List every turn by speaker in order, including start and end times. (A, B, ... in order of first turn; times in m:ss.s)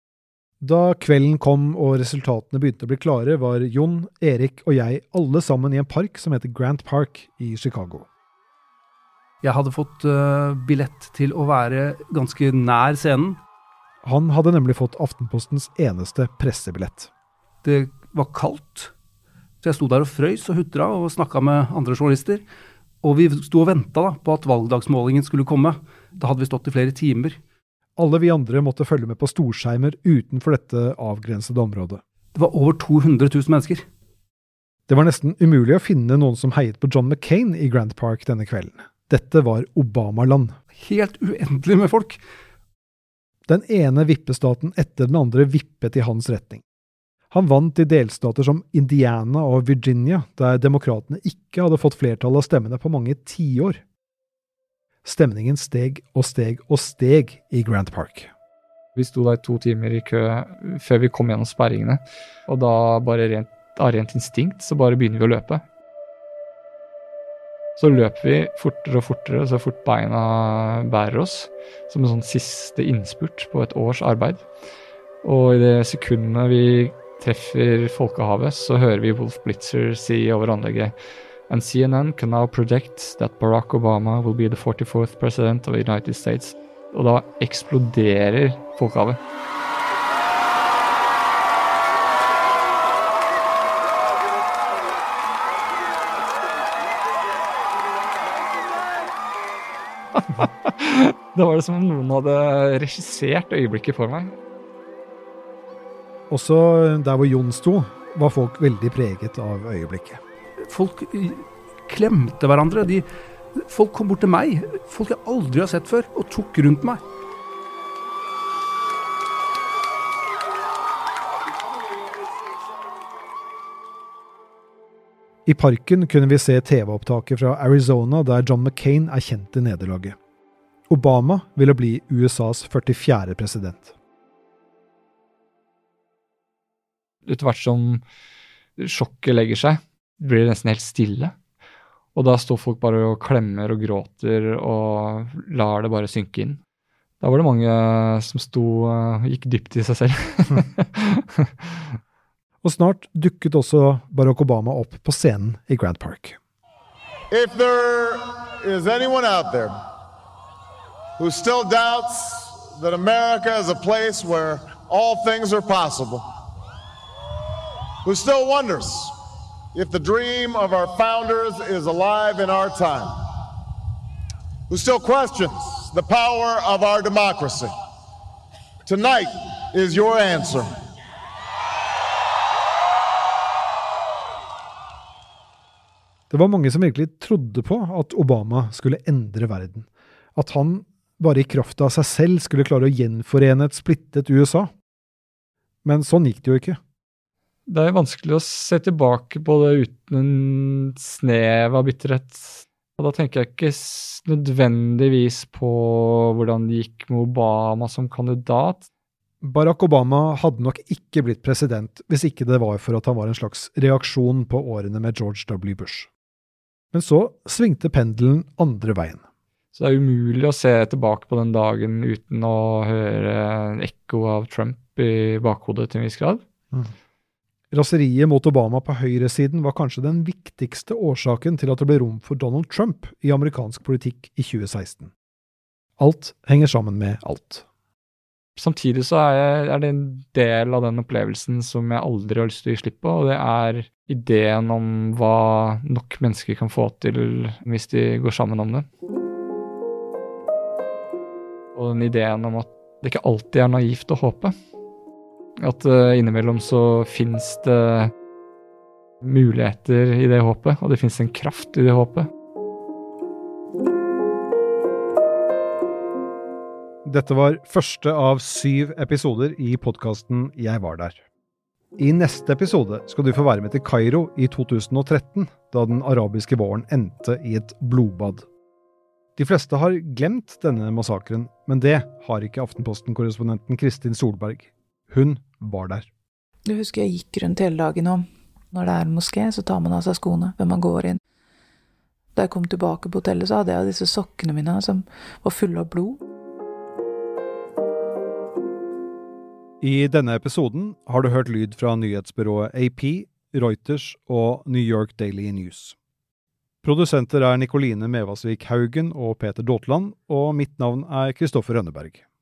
0:00.6-0:08.1 A
0:09.4-0:13.4 B
0:14.0-0:17.1 A
0:17.6-0:18.9 B
0:19.6-0:22.4 B
0:23.0-0:27.4 B
0:28.0-0:32.0 A
0:32.4-0:33.8 B
0:34.9-0:40.6 A
0:40.8-0:42.2 B
0:43.5-0:46.6 A
0:47.3-0:53.8 A
0:55.0-0:58.3 A
0:59.0-1:05.6 C
1:07.8-1:14.4 C
1:15.2-1:21.0 C
1:21.5-1:29.2 C
1:40.2-1:44.3 C
1:46.3-1:50.2 A
1:50.6-1:57.0 B
2:05.5-2:10.2 A
2:10.9-2:13.9 A
2:17.3-2:18.0 C
2:18.8-2:21.4 C
2:22.2-2:26.6 C
2:27.2-2:31.9 C
2:32.6-2:36.4 A
2:37.3-2:39.7 D
2:41.2-2:46.2 D
2:48.0-2:49.2 D
2:49.7-2:53.2 D
2:54.7-2:57.7 D
2:58.9-3:00.8 D
3:06.3-3:14.7 A
3:15.8-3:16.8 A
3:17.7-3:28.8 C
3:29.4-3:36.1 A
3:36.9-3:39.2 A
3:39.7-3:46.4 C
3:47.7-3:55.1 A
3:56.0-3:57.6 A
3:58.6-4:08.9 C
4:11.8-4:14.6 C
4:15.6-4:18.1 C
4:19.2-4:22.3 C
4:27.0-4:31.2 A
4:32.0-4:38.5 A
4:39.4-4:46.1 A
4:46.7-4:51.2 E
4:52.4-4:56.2 E
4:59.8-5:06.0 A
5:06.8-5:12.2 A